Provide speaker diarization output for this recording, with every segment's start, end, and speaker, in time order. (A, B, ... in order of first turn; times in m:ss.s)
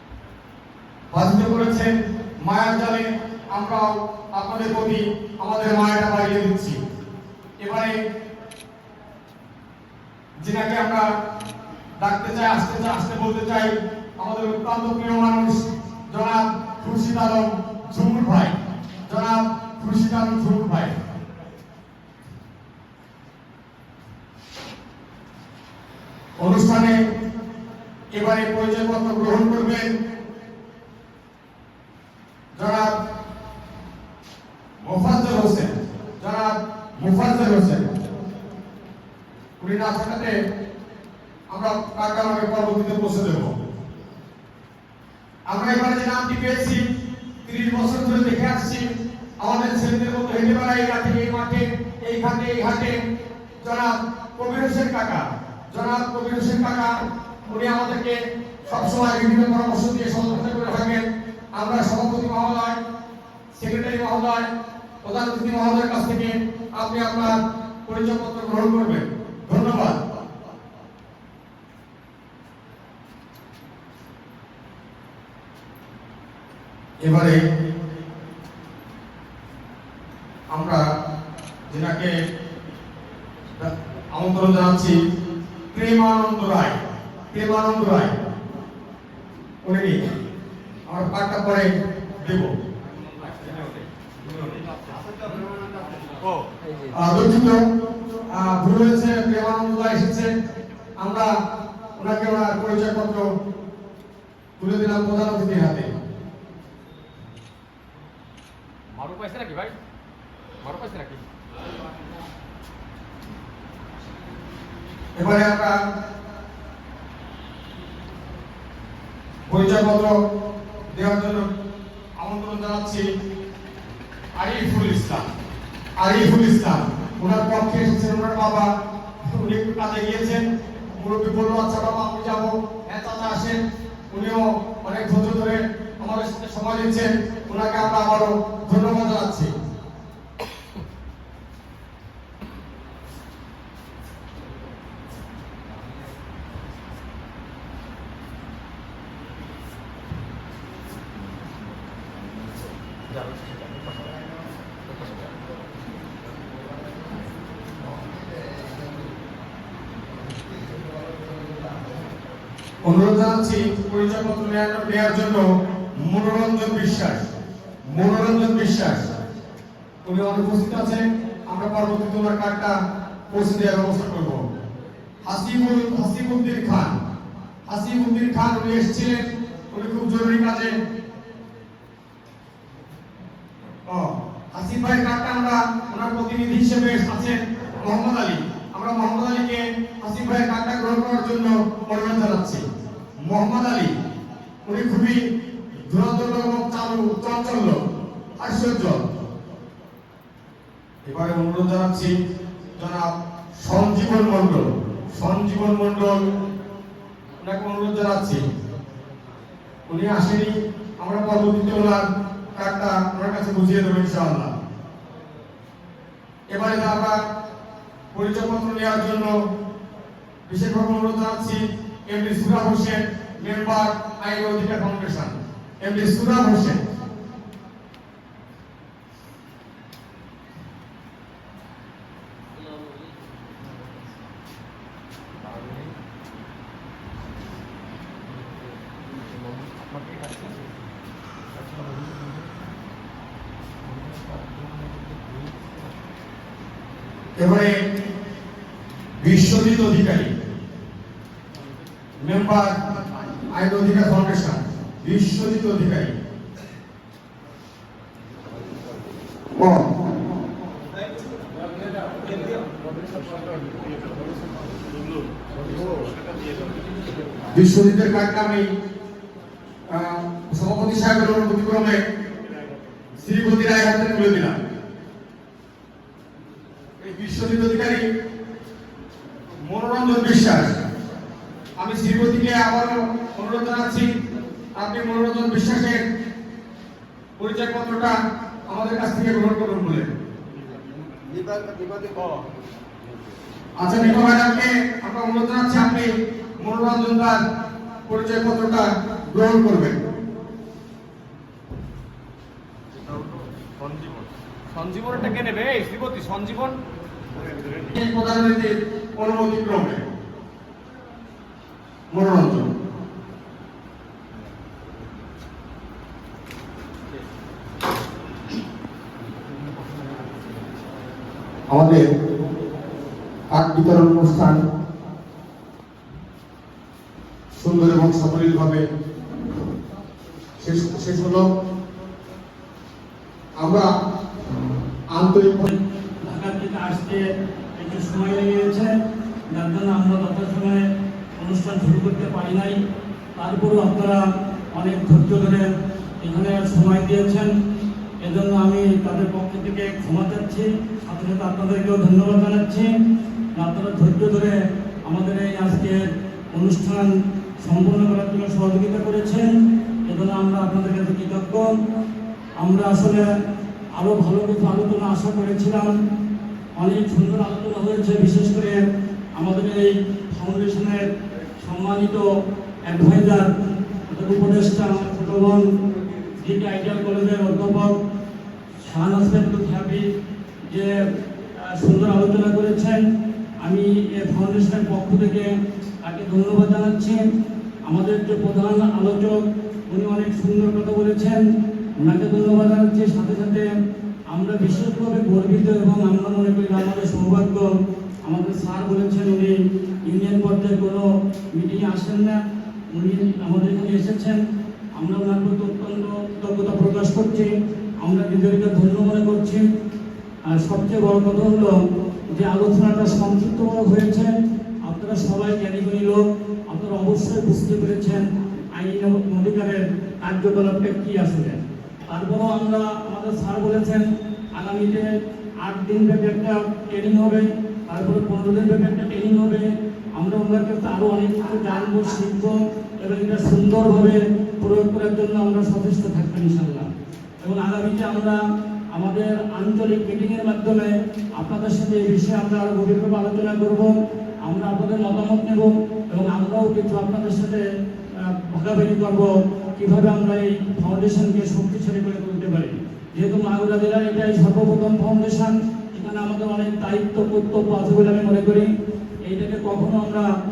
0:01.1-0:06.8 A
0:07.6-0:08.0 A
0:10.4-0:11.0 A
0:12.0-0:21.0 A
0:26.4-0:27.0 A
0:28.1-0:29.9 A
0:32.6-0:32.9 A
0:34.8-0:37.9 A
0:39.6-0:40.3 A
0:41.5-0:43.5 A
0:45.5-0:46.8 A
0:47.4-0:53.0 A
0:53.6-0:56.9 A
0:57.5-1:02.8 A
1:03.6-1:04.5 A
1:05.0-1:10.0 A
1:17.0-1:17.4 A
1:20.5-1:20.8 A
1:21.7-1:22.2 A
1:23.6-1:25.0 A
1:25.7-1:26.8 A
1:27.3-1:28.2 A
1:29.6-1:30.0 A
1:30.9-1:32.6 A
1:32.9-1:36.7 B
1:36.9-1:37.6 A
1:38.3-1:40.3 A
1:41.0-1:41.3 A
1:42.0-1:43.3 A
1:44.6-1:45.9 A
1:48.9-1:49.8 B
1:50.6-1:51.2 B
1:55.2-1:55.7 A
1:59.5-2:00.2 A
2:00.9-2:01.5 A
2:02.2-2:03.0 A
2:04.4-2:05.3 A
2:06.0-2:08.7 A
2:09.2-2:13.6 A
2:14.1-2:19.5 A
2:33.1-2:34.3 B
2:34.9-2:35.4 B
2:42.9-2:45.4 A
2:46.0-2:47.3 A
2:47.8-2:49.2 A
2:50.0-2:52.8 A
2:53.3-2:54.4 A
2:55.2-2:57.0 A
2:57.7-3:00.7 A
3:03.9-3:12.6 A
3:13.2-3:13.9 A
3:14.6-3:15.2 A
3:15.8-3:17.8 A
3:18.4-3:19.2 A
3:21.0-3:22.1 A
3:22.8-3:23.1 A
3:23.6-3:26.3 A
3:27.4-3:28.4 A
3:29.9-3:34.5 A
3:36.5-3:37.2 A
3:38.1-3:39.4 A
3:40.5-3:46.8 A
3:55.4-3:55.9 B
3:58.2-4:00.9 B
4:01.5-4:02.6 B
4:03.8-4:05.9 B
4:07.4-4:07.7 A
4:09.2-4:10.3 A
4:12.2-4:12.8 A
4:13.5-4:16.2 A
4:19.6-4:19.9 A
4:21.6-4:27.2 B
4:27.5-4:28.7 A
4:29.9-4:32.0 A
4:33.2-4:34.6 A
4:37.0-4:38.0 A
4:39.7-4:40.8 A
4:41.8-4:44.1 A
4:44.8-4:46.0 A
4:47.4-4:48.2 A
4:48.7-4:50.1 A
4:51.4-4:52.4 B
4:53.8-4:57.4 A
4:58.1-5:00.0 A
5:02.9-5:06.8 B
5:07.3-5:07.9 B
5:07.9-5:10.0 A
5:12.1-5:12.7 A
5:19.2-5:20.7 B
5:21.7-5:22.0 A
5:23.5-5:24.6 A
5:27.6-5:28.9 A
5:30.6-5:31.4 A
5:33.6-5:33.9 A
5:35.1-5:35.7 A
5:35.7-5:37.2 C
5:37.8-5:38.9 C
5:39.5-5:40.8 C
5:41.4-5:42.8 C
5:43.4-5:44.2 C
5:44.7-5:45.7 C
5:46.2-5:47.5 C
5:48.2-5:52.9 C
5:53.5-5:56.0 C
5:56.5-5:57.1 C
5:57.6-5:59.5 C
6:00.1-6:01.7 C
6:02.6-6:03.2 C
6:04.0-6:05.9 C
6:06.8-6:08.8 C
6:09.4-6:11.1 C
6:11.6-6:12.2 C
6:12.9-6:13.5 C
6:14.1-6:15.6 C
6:16.4-6:18.0 C
6:18.8-6:20.0 C
6:21.6-6:23.0 C
6:23.6-6:25.5 C
6:26.0-6:27.2 C
6:27.9-6:31.4 C
6:32.0-6:33.7 C
6:34.3-6:37.7 C
6:38.2-6:42.4 C
6:42.9-6:44.4 C
6:45.0-6:49.6 C
6:50.5-6:51.8 C
6:52.3-6:54.3 C
6:54.8-7:05.1 C
7:05.6-7:16.9 C
7:17.4-7:18.4 C
7:18.9-7:23.9 C
7:24.4-7:38.7 C
7:39.2-7:40.3 C